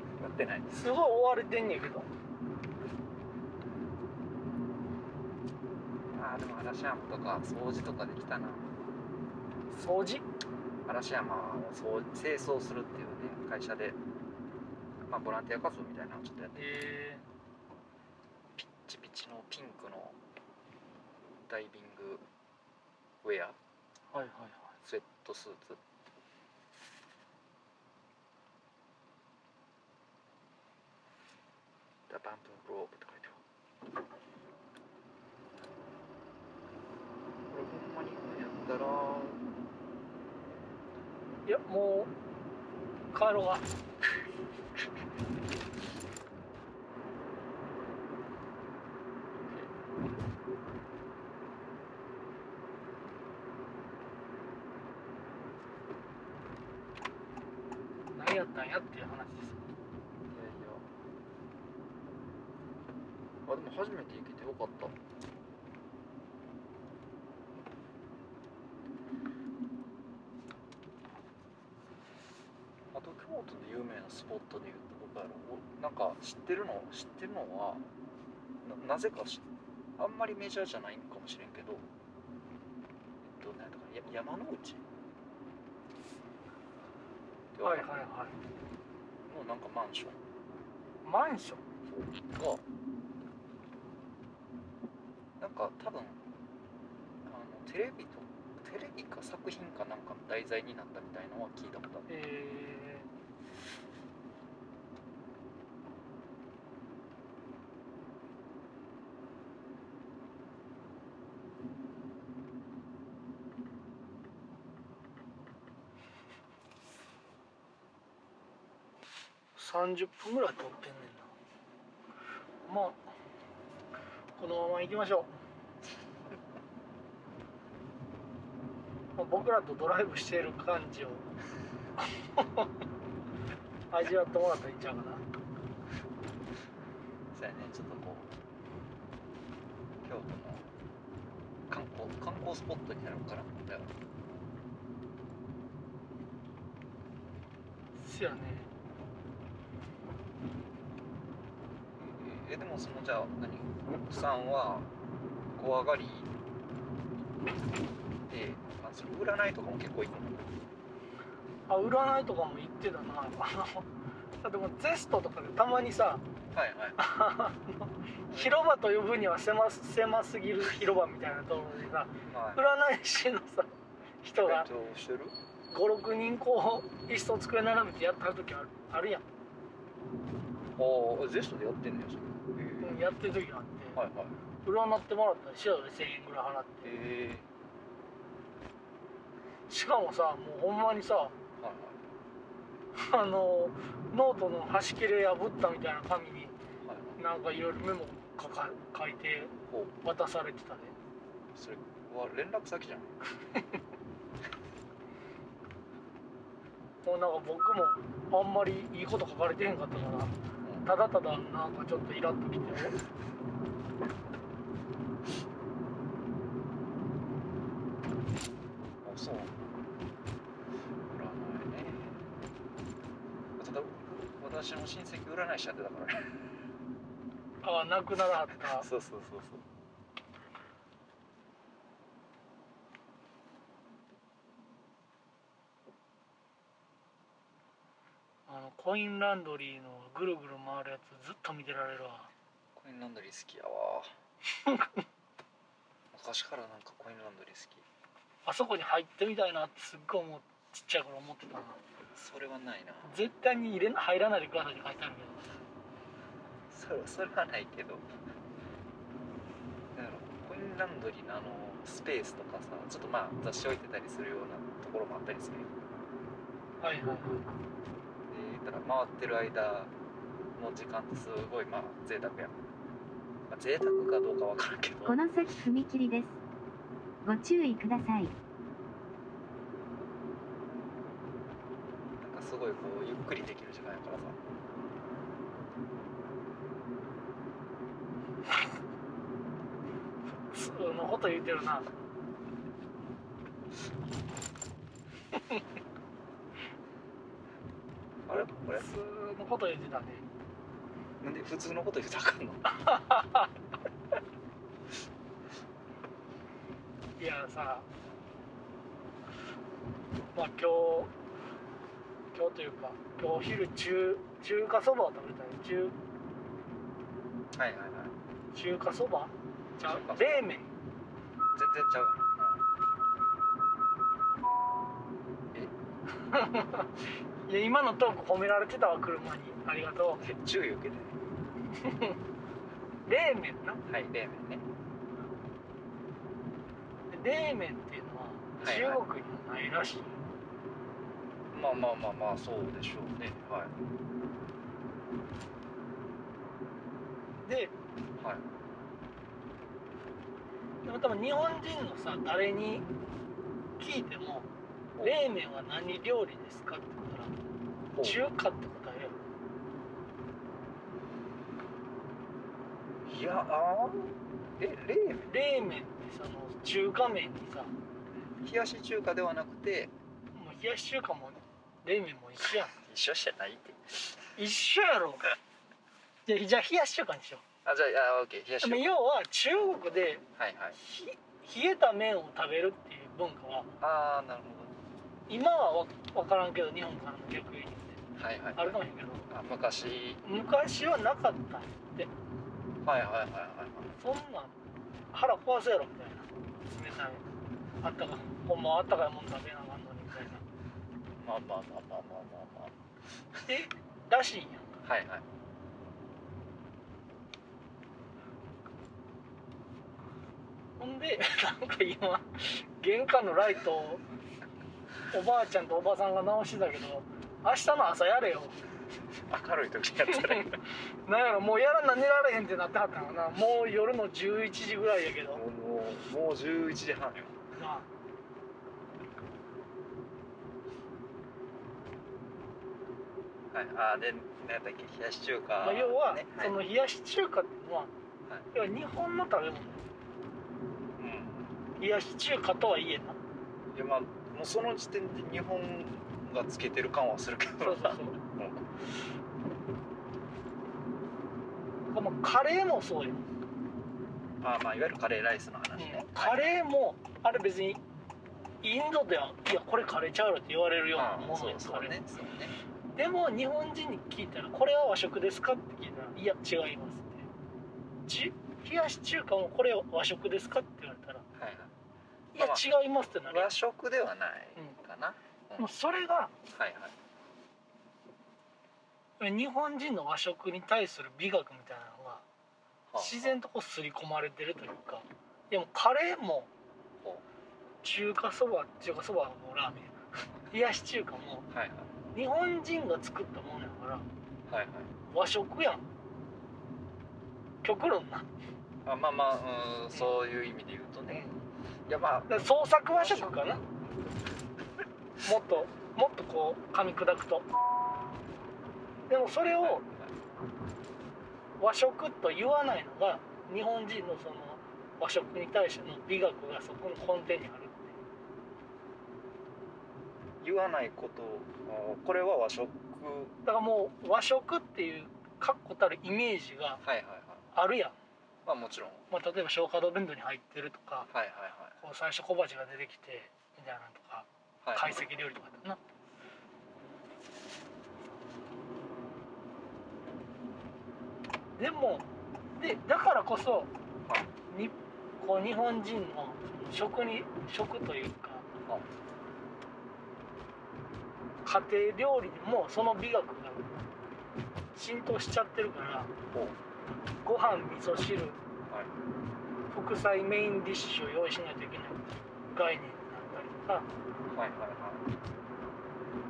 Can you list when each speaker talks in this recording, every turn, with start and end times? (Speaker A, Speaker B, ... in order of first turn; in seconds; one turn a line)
Speaker A: 0.2-0.8
Speaker B: 0.7-2.1
Speaker A: 6.1-8.7
Speaker B: 9.7-10.2
Speaker A: 10.8-14.0
Speaker A: 15.1-16.6
Speaker B: 16.5-17.2
Speaker A: 18.6-20.2
Speaker A: 21.5-22.2
Speaker A: 23.2-23.6
Speaker B: 24.1-24.7
Speaker A: 24.8-25.8
Speaker A: 32.1-33.4
Speaker A: 37.5-39.4
Speaker B: 41.5-42.1
Speaker B: 43.1-43.7
Speaker A: 49.4-49.7
Speaker B: 58.1-59.6
Speaker A: 60.3-60.9
Speaker A: 63.5-65.0
Speaker A: 72.9-77.8
Speaker A: 78.6-79.4
Speaker A: 80.0-81.9
Speaker A: 83.2-84.8
Speaker A: 87.5-87.9
Speaker B: 87.6-88.4
Speaker A: 89.3-90.2
Speaker B: 91.0-91.6
Speaker A: 92.2-92.6
Speaker A: 95.4-96.2
Speaker A: 97.2-102.1
Speaker B: 102.1-103.1
Speaker B: 119.5-121.3
Speaker B: 122.7-123.0
Speaker B: 124.4-125.3
Speaker B: 129.2-131.3
Speaker B: 132.3-132.7
Speaker B: 133.9-135.2
Speaker A: 137.3-138.3
Speaker A: 140.0-140.7
Speaker A: 141.7-143.9
Speaker B: 147.9-148.7
Speaker A: 152.1-154.9
Speaker A: 155.5-156.3
Speaker A: 158.3-160.5
Speaker B: 161.7-163.9
Speaker B: 164.4-166.2
Speaker A: 166.5-167.0
Speaker B: 167.0-173.7
Speaker A: 168.3-168.6
Speaker A: 172.3-172.7
Speaker B: 174.2-174.7
Speaker A: 174.4-175.3
Speaker B: 175.7-179.2
Speaker A: 180.8-183.0
Speaker B: 182.8-184.0
Speaker A: 183.9-184.3
Speaker B: 184.6-186.9
Speaker A: 186.8-187.4
Speaker B: 189.7-191.3
Speaker A: 191.6-192.0
Speaker B: 192.9-196.5
Speaker A: 196.8-197.2
Speaker B: 197.2-200.9
Speaker A: 199.7-199.9
Speaker A: 201.5-203.2
Speaker B: 207.0-213.0
Speaker A: 219.0-219.6
Speaker A: 221.1-222.3
Speaker A: 223.6-226.3
Speaker B: 227.6-228.9
Speaker A: 228.7-229.6
Speaker B: 238.5-242.3
Speaker A: 242.8-244.1
Speaker B: 244.6-245.0
Speaker A: 246.1-247.8
Speaker B: 248.4-251.8
Speaker A: 252.1-253.2
Speaker B: 253.0-255.5
Speaker A: 256.7-258.1
Speaker A: 259.9-265.7
Speaker B: 266.8-267.5
Speaker A: 268.3-269.9
Speaker A: 270.6-272.5
Speaker A: 273.5-275.2
Speaker C: 275.0-276.4
Speaker C: 277.2-278.3
Speaker A: 282.2-284.4
Speaker B: 290.5-291.9
Speaker A: 298.2-298.9
Speaker B: 298.3-300.2
Speaker A: 301.2-302.9
Speaker B: 302.7-303.5
Speaker B: 307.2-307.9
Speaker B: 310.3-311.1
Speaker B: 312.3-315.9
Speaker A: 317.5-318.1
Speaker B: 318.5-320.6
Speaker A: 319.8-320.6
Speaker A: 321.5-322.6
Speaker B: 326.2-326.9
Speaker B: 327.5-330.2
Speaker A: 330.2-331.2
Speaker B: 331.8-332.2
Speaker B: 333.1-333.8
Speaker A: 333.9-334.6
Speaker B: 337.1-340.1
Speaker A: 338.6-339.0
Speaker A: 341.5-343.7
Speaker B: 347.4-347.7
Speaker A: 348.2-348.4
Speaker B: 350.8-352.9
Speaker B: 353.8-354.5
Speaker A: 355.0-355.2
Speaker B: 355.0-357.3
Speaker A: 357.9-358.2
Speaker B: 358.0-359.2
Speaker A: 363.1-365.3
Speaker B: 365.3-367.7
Speaker A: 368.1-369.9
Speaker B: 370.3-372.7
Speaker A: 372.7-374.3
Speaker B: 374.4-375.3
Speaker B: 376.2-377.4
Speaker A: 377.6-379.0
Speaker B: 378.6-380.2
Speaker A: 380.3-380.8
Speaker B: 380.8-383.7
Speaker A: 383.8-384.7
Speaker B: 385.3-388.0
Speaker A: 388.1-390.2
Speaker B: 388.6-389.3
Speaker B: 390.2-392.1
Speaker A: 392.8-393.9
Speaker B: 394.0-394.6
Speaker B: 395.1-397.2
Speaker B: 397.8-400.4
Speaker A: 401.2-402.7
Speaker B: 403.4-404.8
Speaker A: 404.8-405.2
Speaker B: 410.8-414.0
Speaker B: 415.1-418.6
Speaker A: 419.3-420.6
Speaker B: 420.1-425.4
Speaker A: 425.3-427.4
Speaker B: 427.6-427.9
Speaker A: 433.5-436.6
Speaker B: 435.6-437.9
Speaker B: 438.5-439.8
Speaker A: 441.0-441.6
Speaker B: 441.8-443.2
Speaker A: 443.7-448.7
Speaker B: 447.6-448.2
Speaker B: 451.9-453.2
Speaker A: 454.4-456.5
Speaker B: 455.8-457.8
Speaker B: 458.6-462.0
Speaker A: 460.9-462.6
Speaker B: 462.9-467.3
Speaker B: 468.1-471.2
Speaker A: 471.3-471.7
Speaker B: 472.3-473.5
Speaker A: 472.4-475.7
Speaker B: 475.6-476.3
Speaker A: 476.5-476.9
Speaker B: 479.2-482.2
Speaker A: 482.9-483.4
Speaker B: 483.0-486.5
Speaker B: 487.8-491.5
Speaker A: 491.5-491.9
Speaker B: 492.1-494.1
Speaker A: 494.5-494.9
Speaker B: 495.1-495.8
Speaker B: 497.6-498.3
Speaker A: 498.8-501.3
Speaker B: 501.1-501.3
Speaker A: 501.9-503.6
Speaker B: 502.3-503.6
Speaker B: 505.2-507.5
Speaker B: 509.1-509.8
Speaker A: 509.4-510.1
Speaker B: 511.6-518.0
Speaker A: 520.4-523.3
Speaker B: 523.4-526.8
Speaker A: 526.8-527.5
Speaker B: 527.5-528.0
Speaker A: 528.4-529.0
Speaker B: 529.1-531.1
Speaker A: 531.1-531.8
Speaker B: 531.8-535.8
Speaker A: 534.6-535.0
Speaker B: 541.6-542.1
Speaker B: 542.6-543.7
Speaker B: 544.5-548.5
Speaker B: 551.4-553.7
Speaker B: 554.7-556.1
Speaker A: 556.3-556.6
Speaker B: 557.2-558.4
Speaker A: 558.7-558.9
Speaker B: 559.7-563.9
Speaker A: 564.3-565.0